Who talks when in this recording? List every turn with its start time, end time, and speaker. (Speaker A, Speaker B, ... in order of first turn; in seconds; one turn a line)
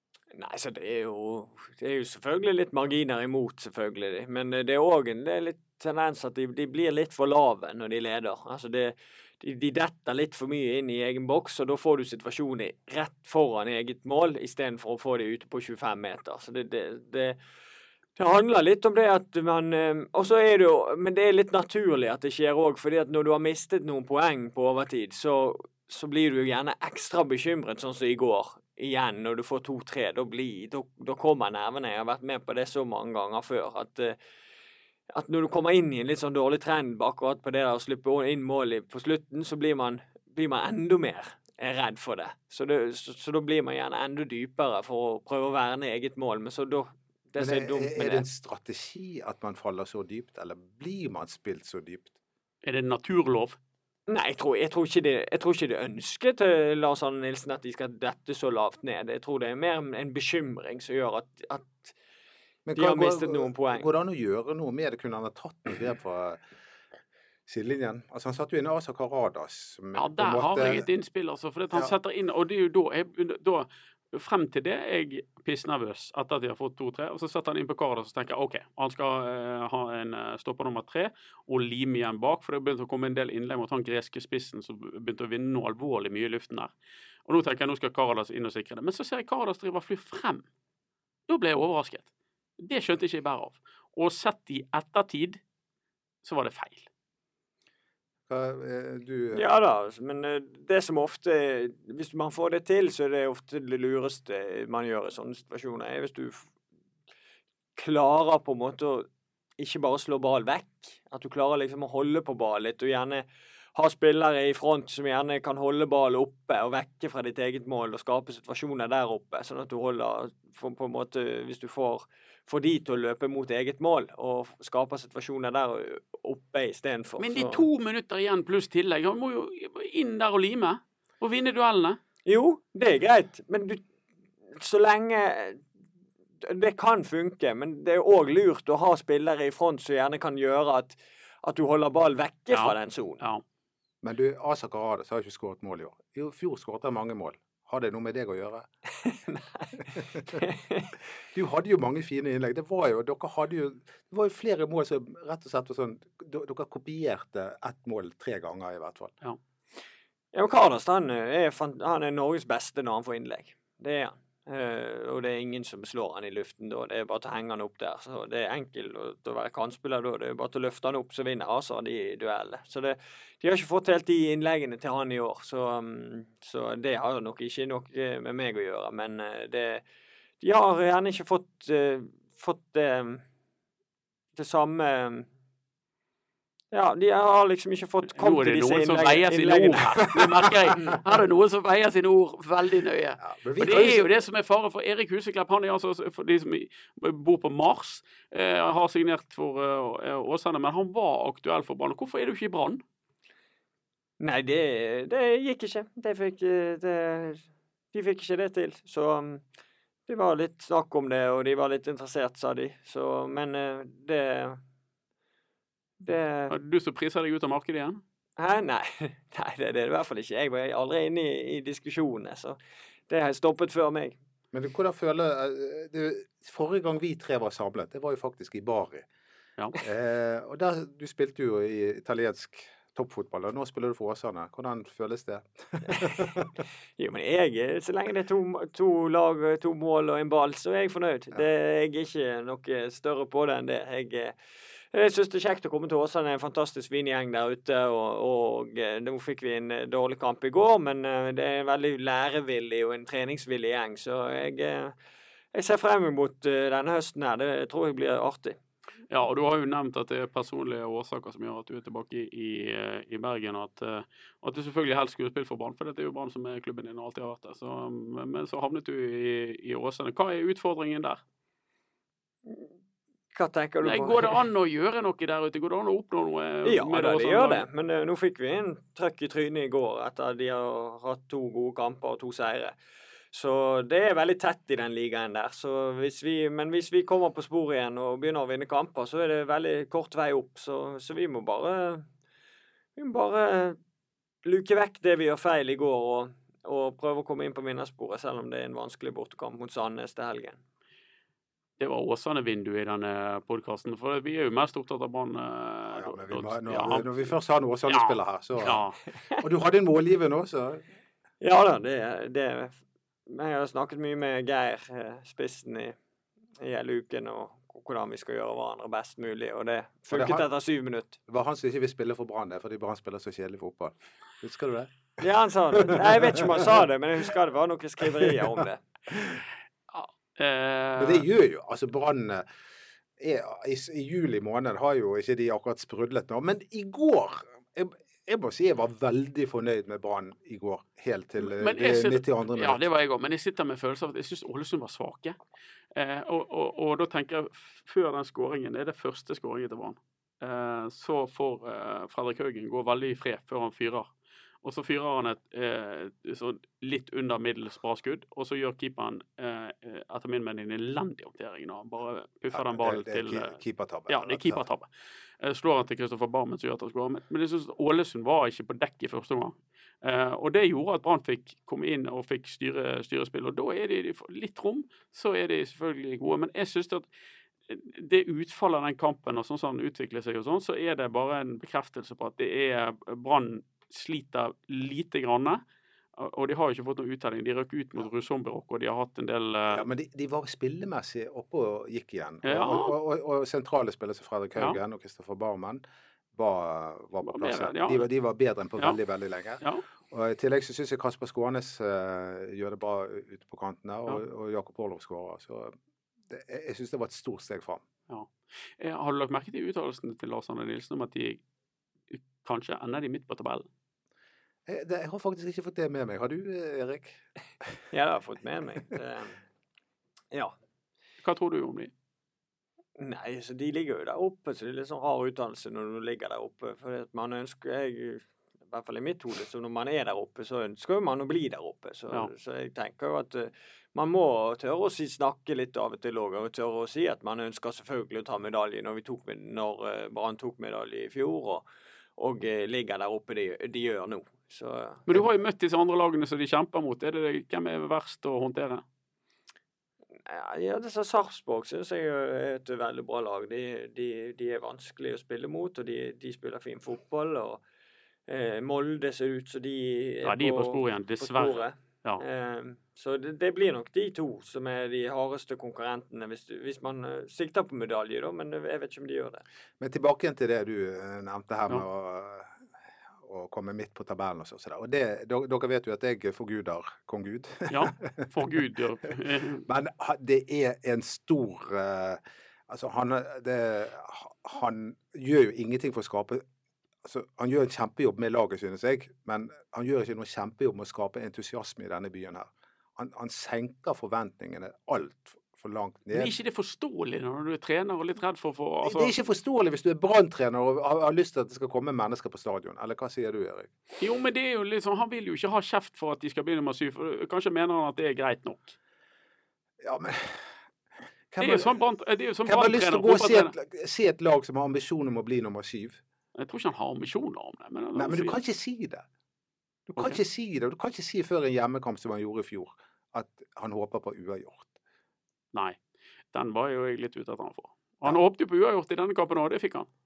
Speaker A: 0.3-17.4
Speaker A: 18.2-34.2
Speaker A: 35.1-48.2
Speaker B: 47.4-52.1
Speaker C: 52.6-53.6
Speaker A: 54.1-61.9
Speaker B: 62.7-66.4
Speaker A: 62.8-63.9
Speaker B: 67.5-70.8
Speaker C: 69.9-86.7
Speaker C: 87.2-90.5
Speaker C: 91.3-92.1
Speaker C: 92.6-95.4
Speaker C: 96.2-96.9
Speaker B: 98.3-99.5
Speaker A: 99.3-106.5
Speaker A: 107.8-109.1
Speaker A: 109.6-127.7
Speaker C: 127.2-132.0
Speaker A: 132.2-133.8
Speaker A: 134.5-135.6
Speaker A: 136.4-143.2
Speaker C: 142.5-143.4
Speaker B: 144.0-148.7
Speaker A: 149.0-150.9
Speaker B: 149.9-150.4
Speaker B: 151.3-159.2
Speaker A: 160.3-179.8
Speaker A: 180.4-183.2
Speaker A: 184.3-185.3
Speaker A: 186.7-190.2
Speaker C: 188.1-202.8
Speaker B: 193.2-194.1
Speaker A: 204.2-209.4
Speaker A: 210.1-214.6
Speaker A: 216.0-216.5
Speaker C: 216.5-218.0
Speaker A: 218.4-222.6
Speaker A: 223.1-224.2
Speaker B: 224.5-229.1
Speaker B: 229.8-236.5
Speaker A: 235.9-236.3
Speaker A: 237.0-244.3
Speaker A: 244.9-254.9
Speaker A: 255.5-258.6
Speaker C: 259.1-271.2
Speaker A: 273.3-274.4
Speaker C: 273.8-277.6
Speaker A: 276.6-282.7
Speaker A: 283.3-292.1
Speaker A: 293.0-293.8
Speaker A: 294.4-300.6
Speaker C: 301.8-307.3
Speaker B: 305.9-308.8
Speaker C: 307.9-309.0
Speaker B: 309.4-310.8
Speaker A: 311.4-315.9
Speaker A: 316.6-321.2
Speaker B: 320.1-320.4
Speaker B: 321.3-324.9
Speaker A: 325.2-328.8
Speaker B: 325.7-326.6
Speaker B: 328.2-328.5
Speaker B: 329.1-329.4
Speaker C: 329.9-331.2
Speaker B: 331.0-332.4
Speaker B: 333.2-342.8
Speaker C: 341.4-345.4
Speaker C: 345.9-354.1
Speaker C: 354.6-363.6
Speaker B: 362.5-364.6
Speaker C: 364.1-364.9
Speaker C: 365.4-377.1
Speaker C: 377.7-385.6
Speaker C: 386.2-389.8
Speaker B: 389.7-395.8
Speaker C: 392.4-392.9
Speaker B: 396.3-405.7
Speaker C: 397.2-398.1
Speaker B: 406.3-407.8
Speaker C: 408.1-411.4
Speaker C: 412.1-413.7
Speaker B: 414.6-417.2
Speaker A: 417.9-419.4
Speaker C: 421.2-421.9
Speaker A: 423.0-441.6
Speaker A: 442.2-445.1
Speaker C: 445.1-448.8
Speaker A: 450.2-457.6
Speaker A: 458.3-469.4
Speaker C: 460.2-462.2
Speaker B: 469.8-472.6
Speaker B: 473.2-478.3
Speaker C: 477.7-479.6
Speaker B: 479.6-486.4
Speaker B: 487.0-496.3
Speaker C: 496.1-499.1
Speaker B: 498.8-503.7
Speaker C: 504.0-508.8
Speaker B: 509.8-510.5
Speaker B: 511.3-511.7
Speaker C: 511.4-513.5
Speaker B: 512.5-516.0
Speaker C: 516.4-518.4
Speaker B: 518.0-519.0
Speaker B: 519.9-524.7
Speaker C: 525.5-525.8
Speaker C: 526.3-529.9